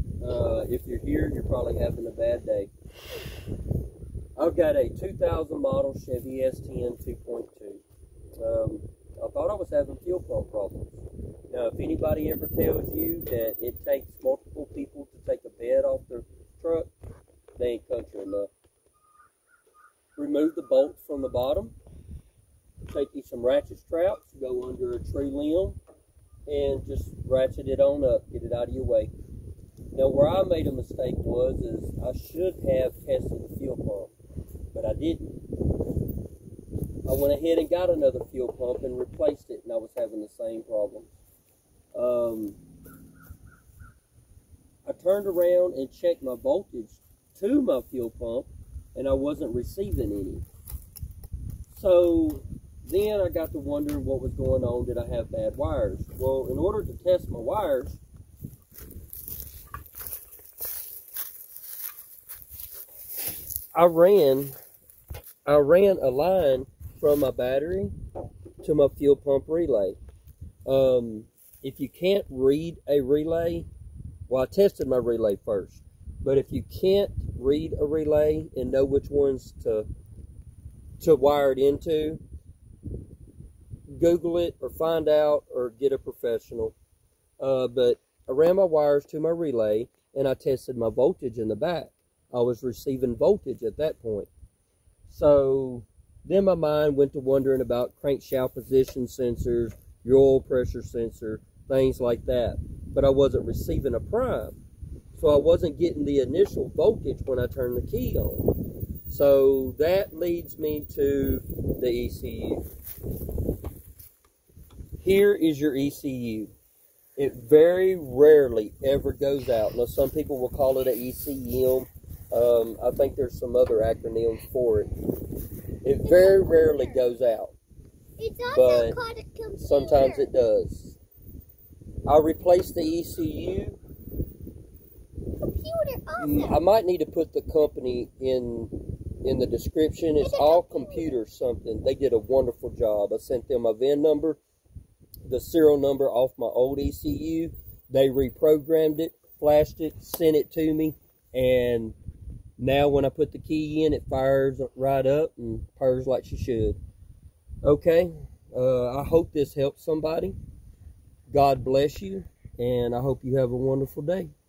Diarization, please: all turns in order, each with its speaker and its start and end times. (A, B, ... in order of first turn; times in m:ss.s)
0:00.2-0:02.7 A
0:04.4-0:07.8 A
0:08.4-0:11.0 A
0:11.5-0:16.9 A
0:17.6-0:18.5 A
0:20.2-0:21.7 A
0:22.9-0:25.8 A
0:26.5-0:29.1 A
0:29.9-0:34.1 A
0:34.7-0:35.4 A
0:37.0-0:41.1 A
0:41.9-0:42.6 A
0:44.8-0:50.4 A
0:51.7-0:58.0 A
1:03.7-1:04.5 A
1:05.4-1:07.9 A
1:08.6-1:10.0 A
1:10.6-1:13.7 A
1:14.3-1:19.9 A
1:21.0-1:22.2 A
1:23.9-1:26.8 A
1:27.4-1:34.3 A
1:35.1-1:44.6 A
1:45.1-1:48.5 A
1:49.1-1:52.6 A
1:55.0-1:56.5 A
1:57.2-2:04.9 A
2:05.8-2:07.5 A
2:06.0-2:06.9 B
2:08.2-2:10.3 B
2:08.5-2:09.0 A
2:09.6-2:11.0 A
2:12.0-2:13.8 A
2:15.4-2:16.6 B
2:16.2-2:24.4 A
2:20.2-2:21.1 B
2:25.2-2:32.0 A
2:32.6-2:36.8 A
2:37.6-2:40.4 A
2:41.3-2:44.3 A